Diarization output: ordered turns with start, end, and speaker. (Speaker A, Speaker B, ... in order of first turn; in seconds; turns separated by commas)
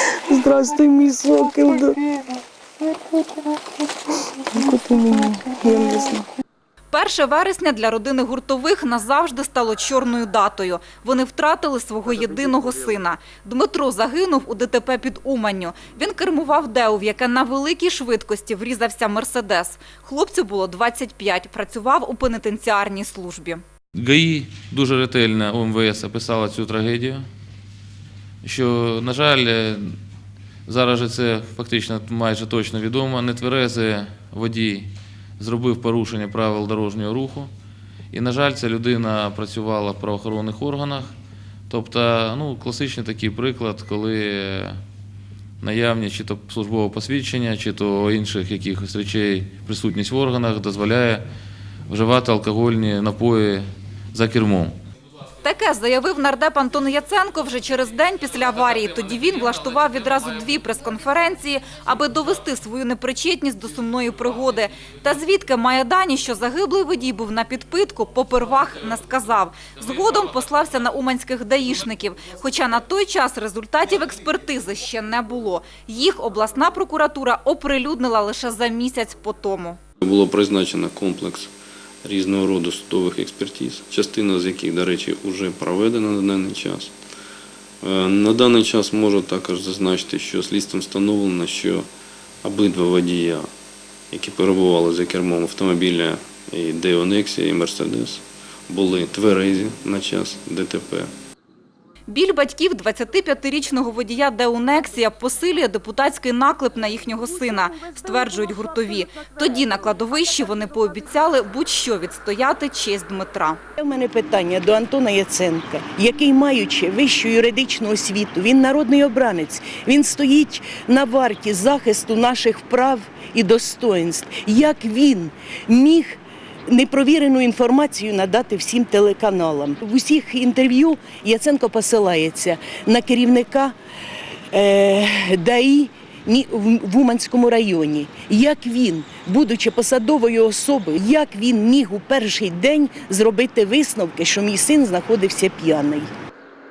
Speaker A: 0.3-1.9, Speaker A: 4.5-6.2, Speaker B: 6.9-23.6, Speaker C: 23.9-27.2, Speaker C: 28.4-29.9, Speaker C: 30.6-37.5, Speaker C: 38.1-41.1, Speaker C: 41.7-44.8, Speaker C: 45.6-51.2, Speaker C: 51.9-54.8, Speaker B: 55.4-79.8, Speaker D: 80.0-81.5, Speaker D: 82.0-86.9, Speaker D: 87.8-91.9, Speaker D: 92.4-93.5, Speaker D: 94.1-101.1, Speaker B: 102.1-113.6, Speaker A: 113.8-133.7, Speaker A: 134.5-146.1